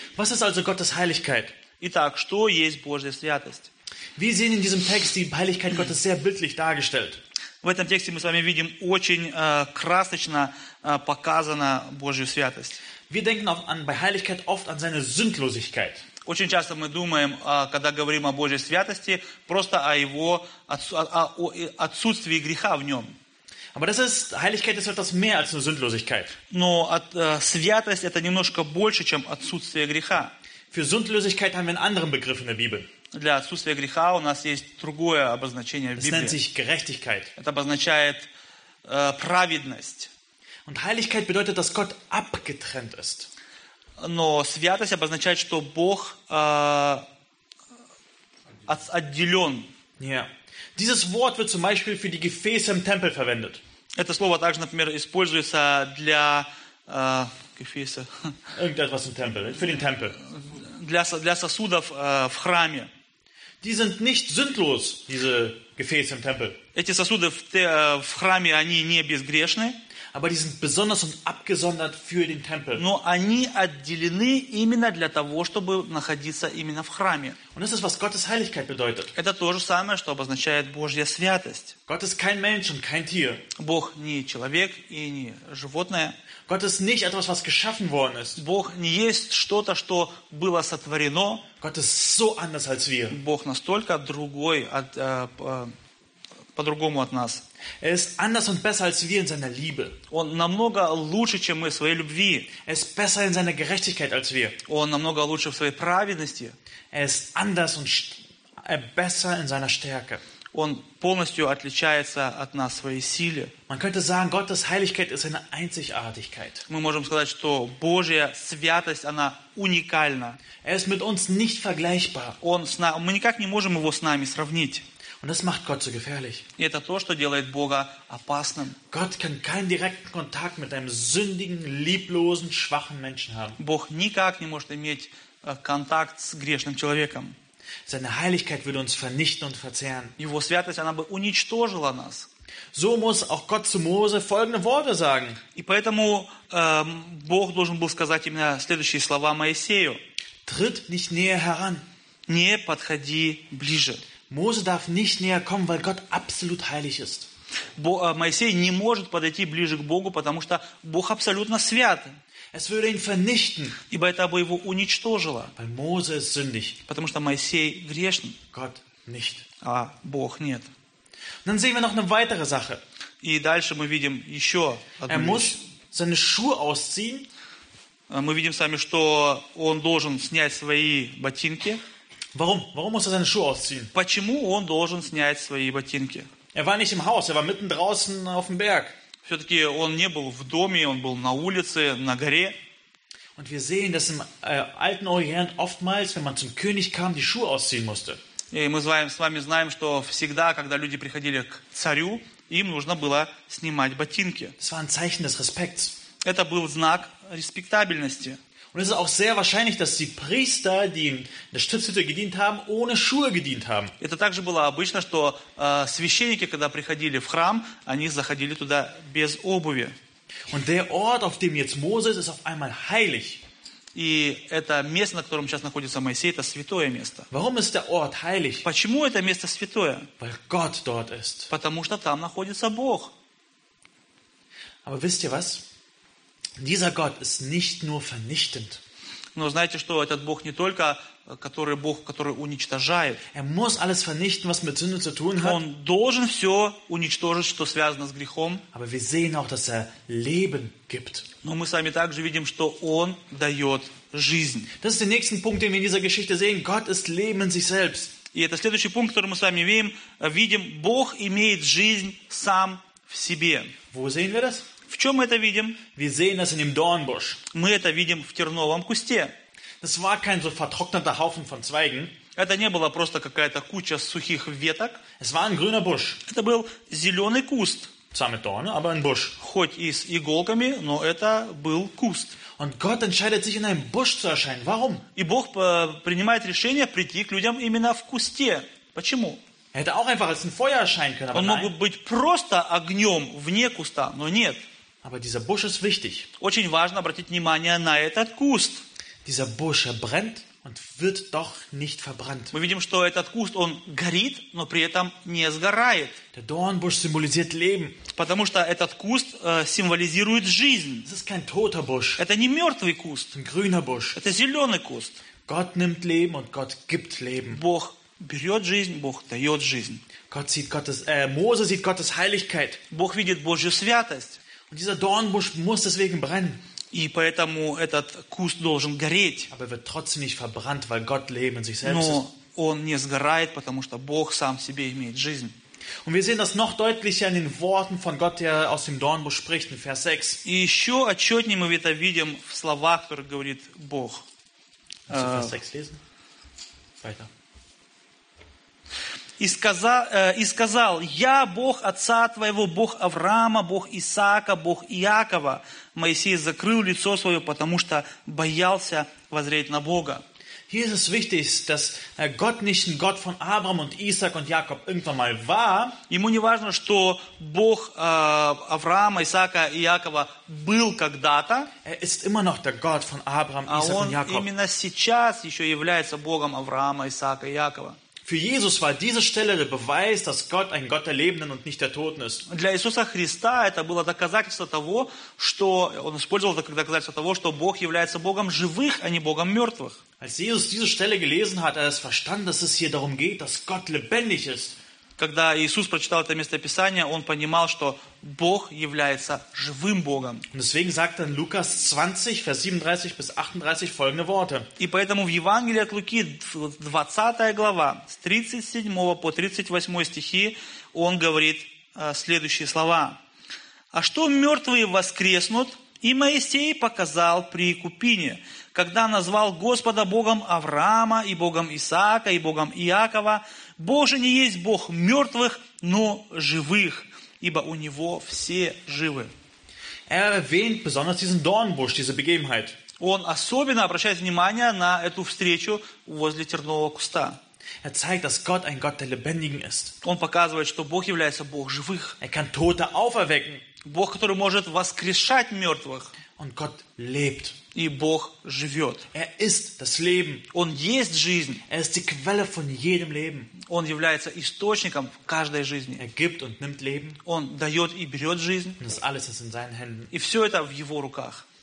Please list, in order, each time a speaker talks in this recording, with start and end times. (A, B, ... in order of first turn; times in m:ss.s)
0:00.2-0:01.6 A
0:01.8-0:03.7 B
0:04.2-0:07.2 A
0:07.6-0:12.8 B
0:13.1-0:16.0 A
0:16.2-0:23.2 B
0:23.7-0:26.3 A
0:26.5-0:30.3 B
0:30.7-0:32.9 A
0:33.1-0:36.4 B
0:36.0-0:37.3 A
0:37.4-0:38.3 B
0:38.8-0:40.1 B
0:40.6-0:43.3 A
0:44.0-0:47.0 B
0:48.7-0:49.7 B
0:50.0-0:53.6 A
0:54.0-0:58.3 B
0:58.6-1:00.2 A
1:00.3-1:02.9 B
1:03.6-1:06.6 A
1:06.8-1:09.8 B
1:10.1-1:12.8 A
1:12.7-1:17.4 B
1:17.5-1:19.1 A
1:19.2-1:21.8 B
1:21.9-1:23.4 A
1:23.6-1:26.2 B
1:26.5-1:28.4 A
1:28.4-1:31.4 B
1:31.6-1:33.2 A
1:33.1-1:35.7 B
1:36.6-1:37.4 B
1:37.8-1:40.0 A
1:40.1-1:42.5 B
1:42.6-1:44.6 A
1:44.7-1:46.6 B
1:46.9-1:50.2 A
1:50.5-1:53.5 B
1:53.7-1:56.7 A
1:56.7-2:00.4 B
2:00.6-2:02.4 A
2:02.4-2:04.8 B
2:05.2-2:06.4 A
2:06.6-2:08.8 B
2:08.9-2:13.6 A
2:13.6-2:17.4 B
2:17.9-2:20.2 A
2:20.2-2:22.3 B
2:22.7-2:25.4 A
2:25.6-2:30.0 B
2:30.5-2:31.8 A
2:32.3-2:34.0 B
2:34.3-2:37.3 A
2:37.8-2:42.2 B
2:42.5-2:43.8 A
2:43.9-2:45.5 B
2:45.6-2:46.8 A
2:46.9-2:48.4 B
2:48.5-2:49.4 A
2:49.6-2:50.7 B
2:51.4-2:52.8 A
2:53.2-2:55.6 B
2:55.1-2:57.3 A
2:58.1-3:01.8 B
3:02.3-3:03.9 A
3:03.9-3:06.3 B
3:06.5-3:09.0 A
3:09.2-3:12.6 B
3:13.4-3:18.2 A
3:18.5-3:24.6 B
3:24.6-3:26.0 A
3:26.2-3:28.4 B
3:28.7-3:33.9 A
3:34.0-3:40.0 B
3:40.5-3:43.4 A
3:44.0-3:47.3 B
3:47.3-3:48.7 A
3:48.6-3:50.1 B
3:50.2-3:51.5 A
3:51.5-3:53.1 B
3:54.8-3:55.6 A
3:56.6-3:58.8 A
3:59.4-4:03.2 B
4:03.3-4:05.6 A
4:05.4-4:08.6 B
4:08.7-4:11.3 A
4:11.4-4:14.7 B
4:14.8-4:18.1 A
4:18.3-4:23.8 B
4:23.9-4:24.7 A
4:24.9-4:25.8 B
4:26.0-4:27.4 A
4:27.5-4:29.3 B
4:29.8-4:32.2 A
4:32.4-4:35.0 B
4:35.2-4:36.2 A
4:36.3-4:37.9 B
4:38.1-4:39.4 A
4:39.4-4:42.4 B
4:42.6-4:45.1 A
4:45.2-4:49.4 B
4:49.7-4:51.7 A
4:51.3-4:54.6 B
4:55.0-4:56.3 A
4:56.4-4:58.8 B
4:59.2-5:02.5 A
5:02.5-5:06.2 B
5:06.3-5:08.0 A
5:08.1-5:11.1 B
5:11.0-5:12.2 A
5:12.2-5:13.3 B
5:13.3-5:14.2 A
5:14.2-5:15.2 B
5:15.5-5:17.6 A
5:17.5-5:20.0 B
5:20.3-5:22.8 A
5:22.9-5:24.4 B
5:24.7-5:26.6 A
5:26.9-5:29.5 B
5:29.5-5:32.2 A
5:31.8-5:35.6 B
5:36.0-5:40.4 A
5:40.4-5:44.2 B
5:45.1-5:46.0 A
5:45.1-5:45.5 B
5:47.0-5:47.3 A
5:49.4-6:00.2 B
6:00.7-6:06.0 A
6:06.1-6:11.7 B
6:11.8-6:14.5 A
6:13.7-6:18.0 B
6:18.2-6:22.4 A
6:22.5-6:30.0 B
6:30.2-6:34.8 A
6:35.2-6:40.4 B
6:40.5-6:44.7 A
6:44.8-6:53.2 B
6:53.9-7:09.3 B
7:10.1-7:12.8 A
7:13.0-7:17.4 B
7:17.8-7:20.0 A
7:20.0-7:22.2 B
7:22.2-7:23.6 A
7:23.8-7:26.1 B
7:26.4-7:27.6 A
7:27.7-7:29.1 B
7:29.1-7:30.5 A
7:30.5-7:31.6 B
7:31.7-7:33.5 A
7:33.6-7:36.0 B
7:36.0-7:37.2 A
7:37.2-7:38.8 B
7:38.8-7:40.1 A
7:40.1-7:41.4 B